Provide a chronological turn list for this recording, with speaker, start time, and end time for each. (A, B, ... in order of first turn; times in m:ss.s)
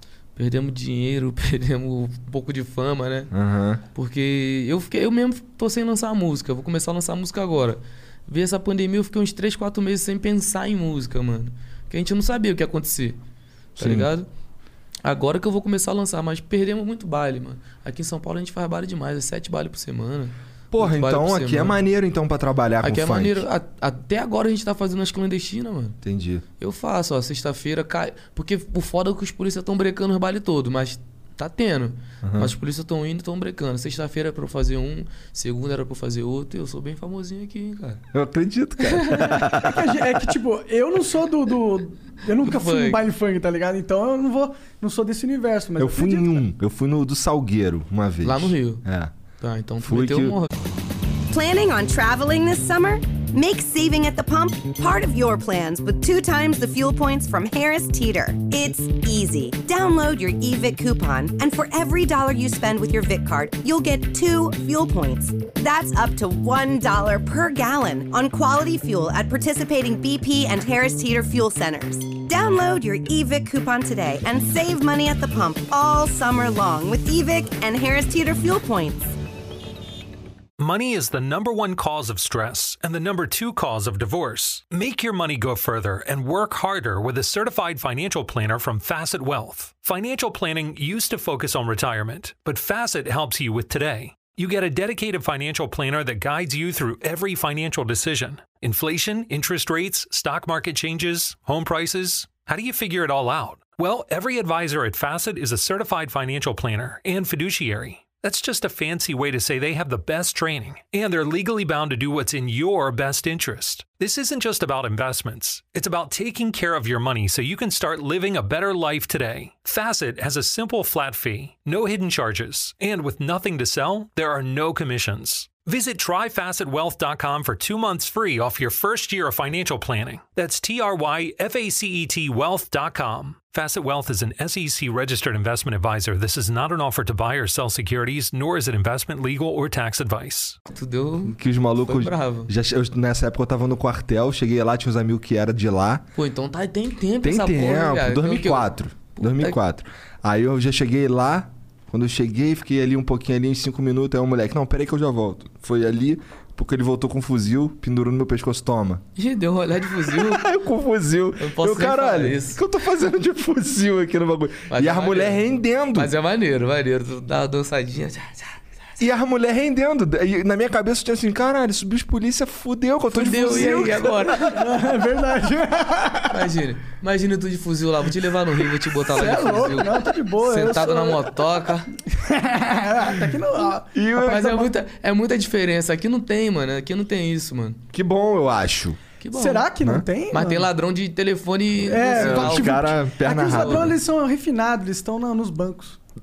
0:00.4-0:03.3 A
0:03.3-0:03.8 B
0:03.9-0:13.2 A
0:13.8-0:14.1 B
0:13.8-0:14.3 A
0:15.0-0:21.8 A
0:20.7-0:23.4 B
0:22.8-0:26.0 A
0:26.0-0:26.4 B
0:26.6-0:38.0 A
0:32.2-0:32.5 B
0:38.1-0:40.0 B
0:38.9-0:39.5 A
0:39.6-0:46.4 C
0:42.4-0:43.0 A
0:45.8-0:49.1 B
0:48.2-0:48.8 A
0:49.4-0:50.5 A
0:49.8-0:50.4 B
0:51.3-1:19.2 D
1:20.6-2:20.6 E
2:20.7-2:22.5 A
2:21.3-2:26.0 B
2:26.2-2:29.6 A
2:27.2-2:39.0 B
2:39.2-2:40.4 A
2:40.0-2:46.1 B
2:41.4-2:42.6 A
2:44.7-2:49.0 A
2:49.0-2:54.4 B
2:53.1-2:54.6 A
2:53.4-2:53.9 C
2:54.4-2:56.4 C
2:56.3-3:01.9 A
2:59.0-3:01.3 C
3:02.1-3:04.7 C
3:03.9-3:04.6 B
3:04.2-3:07.8 A
3:07.9-3:09.0 B
3:09.2-3:09.7 A
3:09.3-3:10.7 C
3:10.3-3:12.9 A
3:11.8-3:16.0 C
3:12.1-3:14.0 B
3:13.4-3:13.9 A